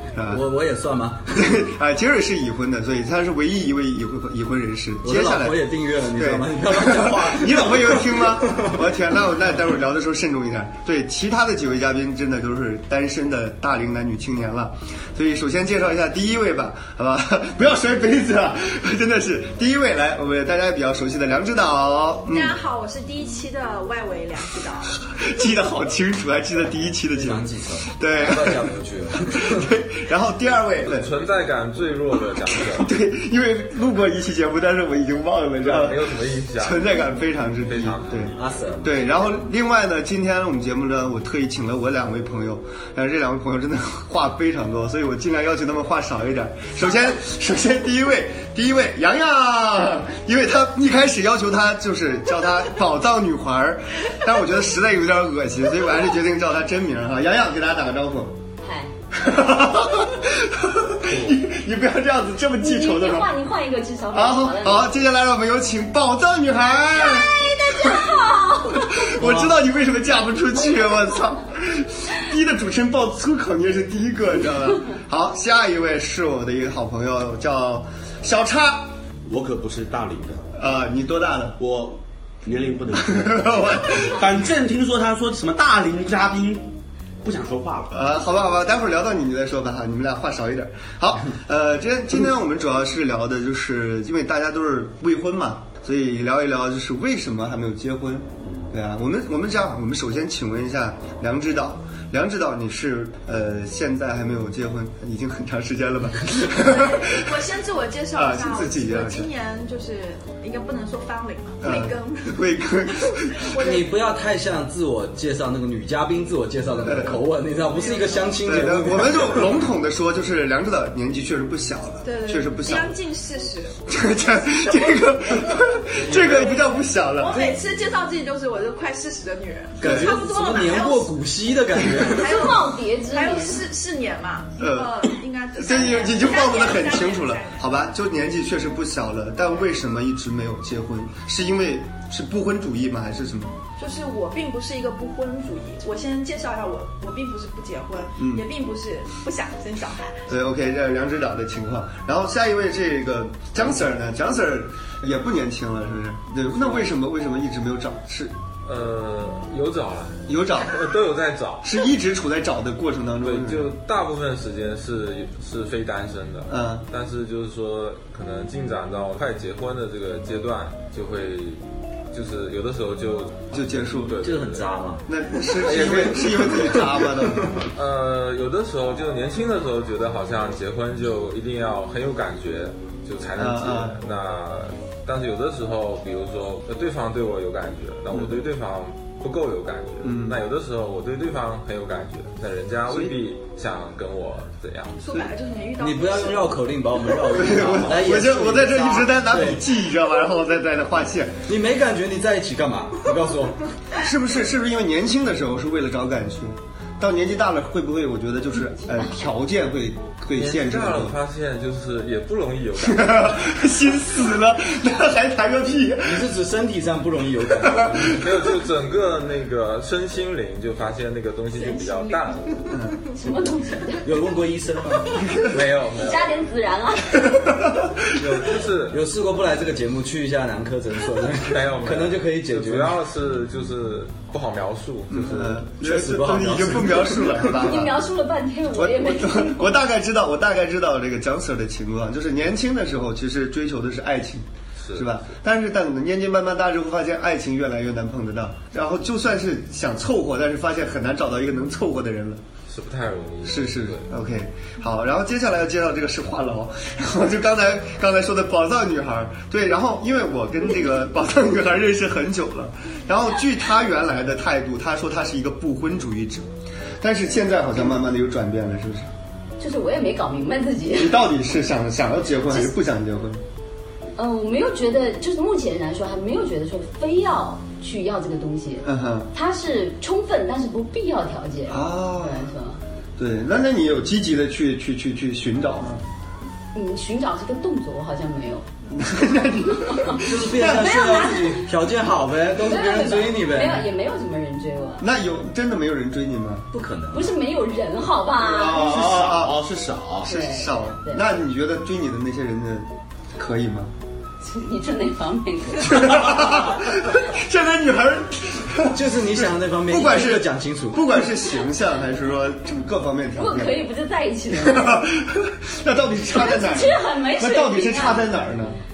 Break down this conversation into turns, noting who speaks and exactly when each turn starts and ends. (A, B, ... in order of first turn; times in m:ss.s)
0:00.1-0:00.4 A
0:00.3-0:01.5 B
0:01.3-0:22.6 A
0:05.0-0:08.7 B
0:22.3-0:24.9 C
0:25.1-0:31.1 A
0:27.1-0:29.7 B
0:30.8-0:32.9 D
0:32.8-0:58.4 A
0:35.6-0:37.1 D
0:37.6-0:38.4 D
0:38.4-0:38.9 B
0:58.6-0:58.9 E
0:59.1-1:03.3 A
1:01.1-1:01.4 D
1:02.6-1:04.9 E
1:04.1-1:08.1 A
1:06.9-1:09.1 E
1:08.7-1:18.9 A
1:09.2-1:09.6 B
1:19.3-1:20.5 F
1:20.5-1:21.6 A
1:21.6-1:26.7 F
1:22.9-1:24.2 A
1:27.2-1:28.0 F
1:27.9-1:47.3 A
1:38.4-1:38.7 F
1:46.5-1:52.5 C
1:48.1-1:49.3 A
1:51.6-1:53.3 A
1:53.2-1:54.0 C
1:53.6-1:59.5 B
1:56.8-1:57.2 A
1:57.6-1:58.4 C
1:58.4-2:03.0 A
2:02.0-2:03.8 C
2:03.9-2:07.5 A
2:06.2-2:11.2 C
2:09.8-2:12.5 B
2:09.8-2:10.1 A
2:11.9-2:17.7 C
2:12.1-2:13.6 E
2:14.6-2:23.6 A
2:23.8-2:30.3 C
2:28.2-2:28.5 A
2:30.3-2:38.4 A
2:36.5-2:36.9 D
2:38.6-2:41.8 D
2:40.3-2:40.8 A
2:41.6-2:43.7 A
2:43.2-2:54.7 D
2:46.5-2:46.9 A
2:53.5-2:54.2 A
2:54.2-2:55.1 B
2:55.1-2:57.7 A
2:55.6-2:56.8 D
2:56.5-2:57.7 B
2:57.7-3:15.1 D
3:03.4-3:04.0 A
3:08.1-3:08.4 A
3:10.0-3:10.4 A
3:12.9-3:13.2 A
3:15.0-3:17.2 C
3:15.8-3:19.6 B
3:17.3-3:21.4 A
3:21.5-3:23.6 B
3:24.0-3:31.2 A
3:30.3-3:33.6 D
3:32.8-3:36.3 A
3:36.0-3:38.2 B
3:37.6-3:38.4 A
3:38.0-3:42.5 D
3:41.6-3:43.3 C
3:43.2-3:44.1 E
3:44.0-3:45.9 B
3:45.3-3:46.3 D
3:46.0-3:47.4 E
3:47.4-3:47.9 A
3:48.1-3:53.0 B
3:48.2-3:49.0 D
3:51.4-3:55.6 D
3:55.1-3:58.0 A
3:55.5-3:57.6 B
3:57.5-3:59.7 E
3:58.7-4:12.4 A
4:04.8-4:05.1 D
4:12.7-4:14.1 D
4:13.4-4:26.5 A
4:27.0-4:29.1 A
4:29.6-4:31.2 E
4:30.9-4:33.4 A
4:34.2-4:42.8 E
4:38.8-4:39.3 A
4:41.7-4:42.5 A
4:43.2-4:46.0 A
4:46.7-4:48.6 E
4:48.9-4:51.1 A
4:50.0-4:51.7 E
4:50.2-4:53.9 B
4:52.6-4:55.0 E
4:55.0-4:56.7 A
4:56.7-4:57.4 B
4:57.1-4:59.0 E
4:58.4-5:00.3 F
4:58.6-4:59.6 A
5:00.2-5:03.9 A
5:00.2-5:01.2 E
5:04.4-5:06.5 E
5:05.8-5:13.8 A
5:08.9-5:11.1 B
5:13.4-5:15.1 E
5:14.5-5:18.8 A
5:16.3-5:18.3 E